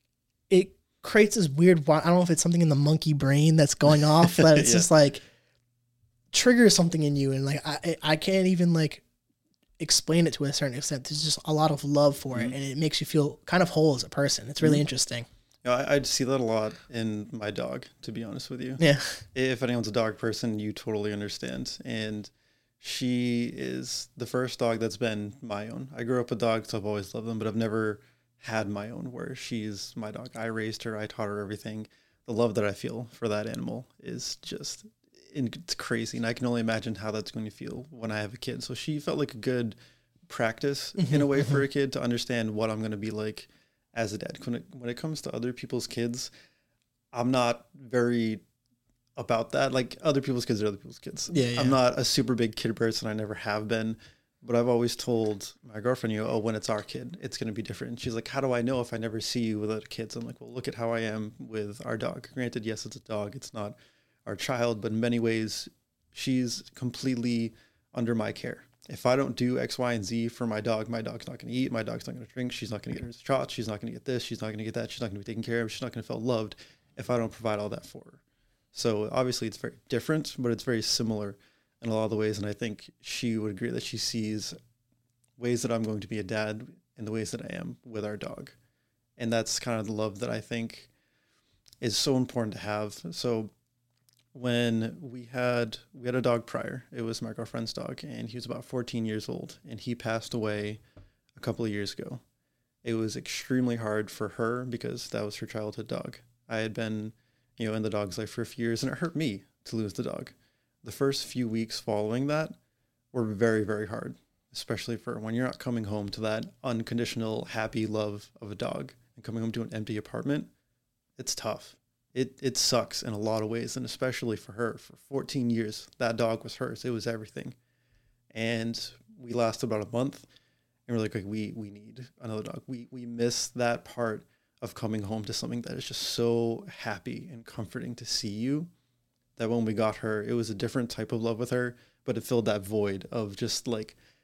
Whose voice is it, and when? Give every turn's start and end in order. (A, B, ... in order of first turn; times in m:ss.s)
0:00.5-0:05.2 A
0:04.2-0:04.9 B
0:06.3-0:09.0 A
0:09.8-0:15.3 A
0:15.6-0:18.8 B
0:18.8-0:19.2 A
0:19.3-0:39.8 B
0:40.3-0:46.3 B
0:41.0-0:41.6 A
0:47.1-0:48.4 B
0:49.2-1:18.2 B
0:51.3-0:51.8 A
1:18.7-1:24.6 B
1:25.4-1:28.6 B
1:29.2-1:30.9 B
1:31.8-1:33.5 B
1:34.3-1:40.8 B
1:41.4-1:42.2 B
1:42.8-1:52.6 B
1:53.1-2:00.5 B
2:01.2-2:07.6 B
2:08.3-2:10.3 B
2:10.9-2:18.7 B
2:19.4-2:24.0 B